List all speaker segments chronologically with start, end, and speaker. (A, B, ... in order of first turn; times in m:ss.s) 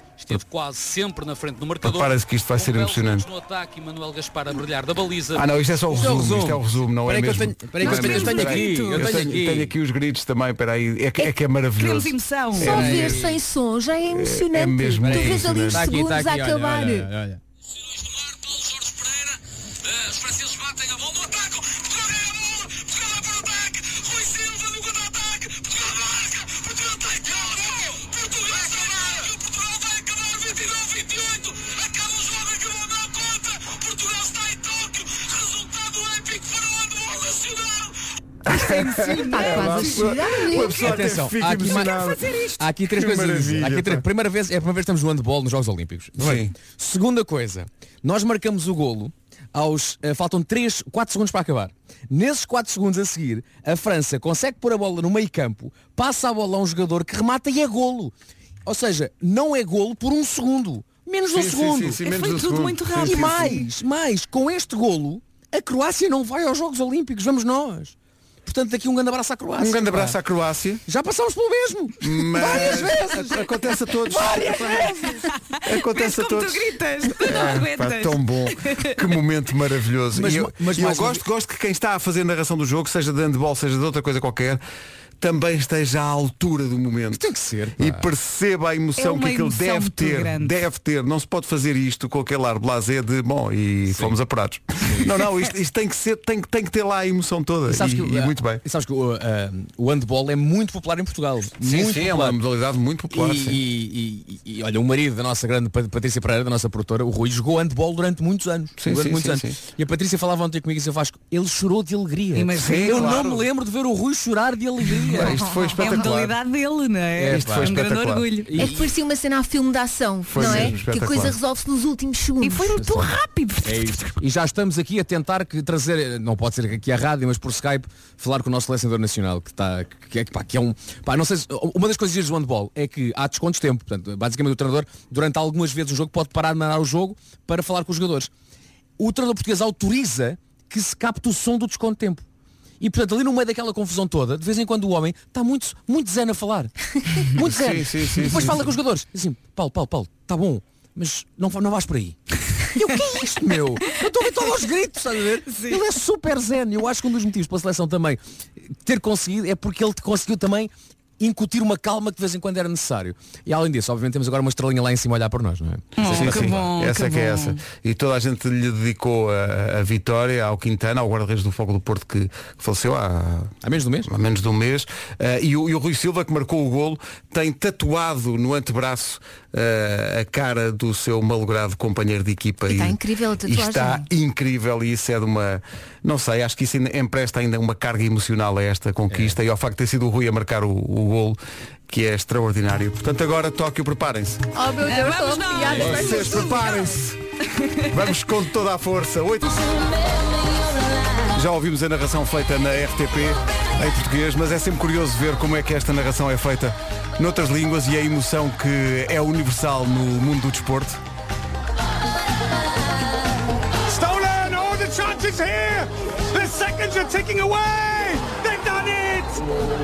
0:00.2-0:05.8 A
0:01.8-0:03.3 B
0:05.3-0:13.2 B
0:05.9-0:09.7 C
0:07.8-0:09.1 D
0:11.8-0:12.9 D
0:12.6-0:17.1 E
0:12.6-0:13.4 C
0:14.1-0:15.9 B
0:15.0-0:17.4 C
0:18.6-0:19.0 A
0:19.9-0:21.8 A
0:30.6-0:32.3 A
0:36.1-0:36.5 A
0:37.0-0:37.4 A
0:38.5-0:44.0 B
0:38.5-0:40.1 D
0:39.3-0:41.0 E
0:40.8-0:58.1 C
0:42.0-0:42.5 D
0:46.2-0:46.5 B
0:58.6-1:02.0 C
1:01.3-1:03.6 B
1:02.0-1:03.6 D
1:03.0-1:07.9 C
1:08.4-1:10.2 C
1:09.6-1:10.8 B
1:10.9-1:13.4 C
1:12.0-1:15.1 B
1:14.1-1:15.2 C
1:15.6-1:16.7 B
1:15.7-1:18.9 D
1:17.2-1:24.6 B
1:20.1-1:21.2 C
1:25.2-1:27.2 B
1:27.1-1:28.0 C
1:27.8-1:38.6 B
1:29.0-1:30.5 D
1:33.9-1:34.2 C
1:34.8-1:35.1 C
1:37.7-1:42.4 C
1:41.6-1:43.6 B
1:43.1-1:55.4 C
1:48.8-1:49.6 B
1:52.3-1:53.2 D
1:52.6-1:53.4 B
1:55.1-1:56.3 B
1:55.8-1:58.6 D
1:57.2-1:57.8 C
1:57.3-1:58.3 B
1:58.5-1:58.9 C
1:58.6-2:02.8 E
2:00.3-2:01.4 B
2:00.4-2:00.8 C
2:02.4-2:04.1 D
2:02.8-2:03.1 C
2:03.6-2:18.3 C
2:19.0-2:22.2 C
2:22.8-2:26.7 C
2:27.3-2:32.2 C
2:27.4-2:28.7 B
2:32.7-2:38.2 C
2:35.5-2:35.8 D
2:38.7-2:46.6 C
2:46.0-2:47.6 D
2:46.1-2:53.5 B
2:53.6-2:54.1 C
2:54.0-3:14.4 B
3:02.7-3:04.1 E
3:14.5-3:16.8 E
3:14.8-3:16.8 D
3:15.8-3:17.2 B
3:17.9-3:19.6 B
3:21.3-3:31.0 B
3:33.8-3:39.4 F